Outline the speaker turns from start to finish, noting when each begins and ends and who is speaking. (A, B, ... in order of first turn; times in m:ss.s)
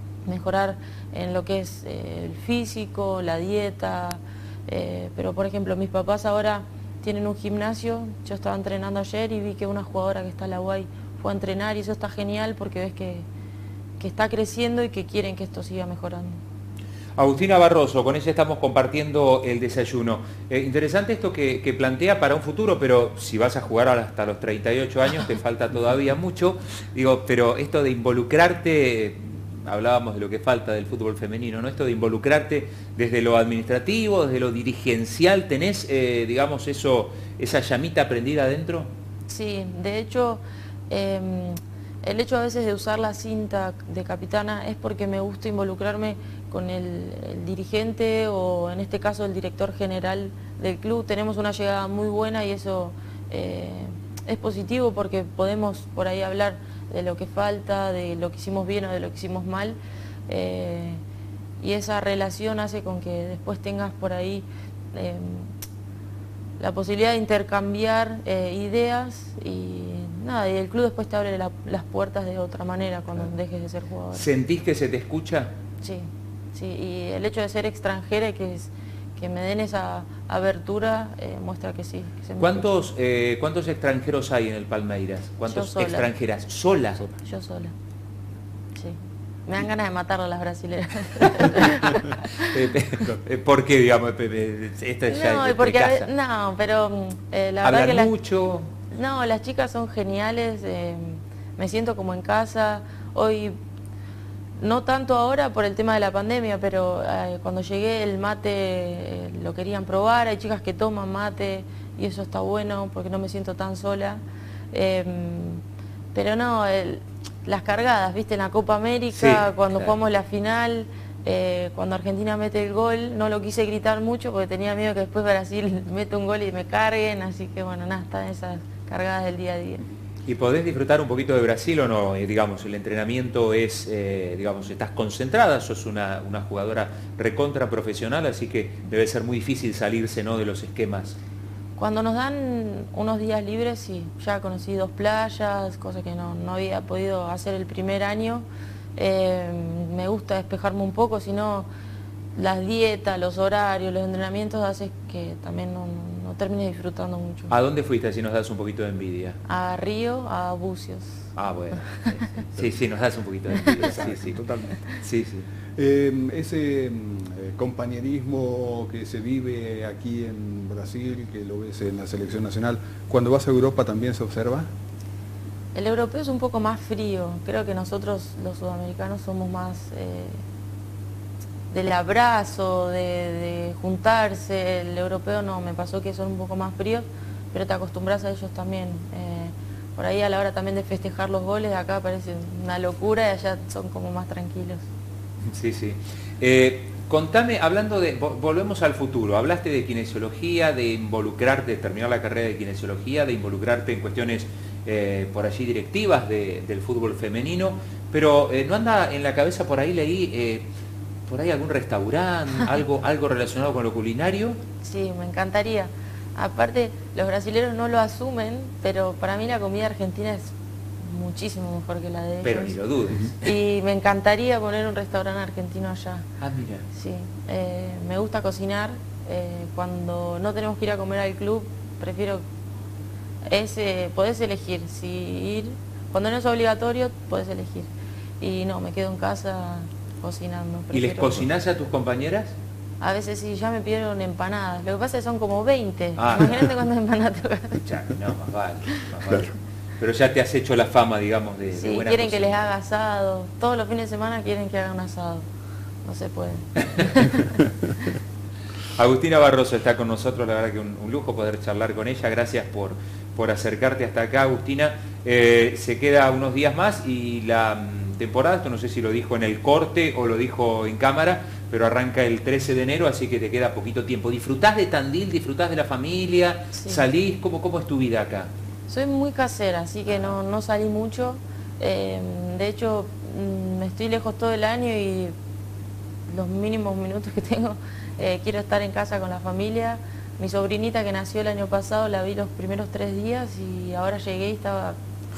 0:00.2-0:13.2 A
0:14.0-0:16.4 A
0:17.2-0:38.9 B
0:39.3-0:59.8 A
1:00.3-1:01.0 A
1:01.6-1:05.5 A
1:06.6-1:14.2 A
1:14.1-1:15.5 B
1:15.8-1:22.6 A
1:22.4-1:27.0 B
1:25.5-1:26.1 A
1:27.2-1:27.7 A
1:28.8-1:32.4 A
1:32.0-1:36.1 B
1:35.1-1:38.1 A
1:37.6-1:38.7 B
1:38.9-1:43.5 A
1:44.6-1:54.2 A
1:54.7-1:55.6 A
1:56.1-2:09.8 A
1:59.1-1:59.9 B
2:10.2-2:21.2 B
2:21.8-2:28.4 A
2:29.0-2:31.7 A
2:32.3-2:37.5 A
2:37.5-2:39.4 B
2:39.5-2:41.2 A
2:41.4-2:44.4 B
2:43.9-2:44.8 C
2:45.0-2:45.5 B
2:45.8-2:54.7 C
2:55.7-3:00.4 A
3:01.7-3:14.8 A
3:15.5-3:30.7 B
3:31.3-3:34.6 B
3:34.8-3:42.8 A
3:42.4-3:43.5 B
3:43.4-3:46.3 A
3:46.4-3:46.8 B
3:46.9-3:52.4 A
3:53.5-3:57.9 A
3:58.4-4:01.4 A
4:00.9-4:02.5 B
4:03.0-4:07.8 A
4:06.2-4:06.7 B
4:07.7-4:12.6 B
4:11.7-4:15.4 A
4:16.0-4:17.6 A
4:18.9-4:38.5 B
4:36.8-4:37.0 A
4:38.9-4:45.3 A
4:46.3-4:55.0 A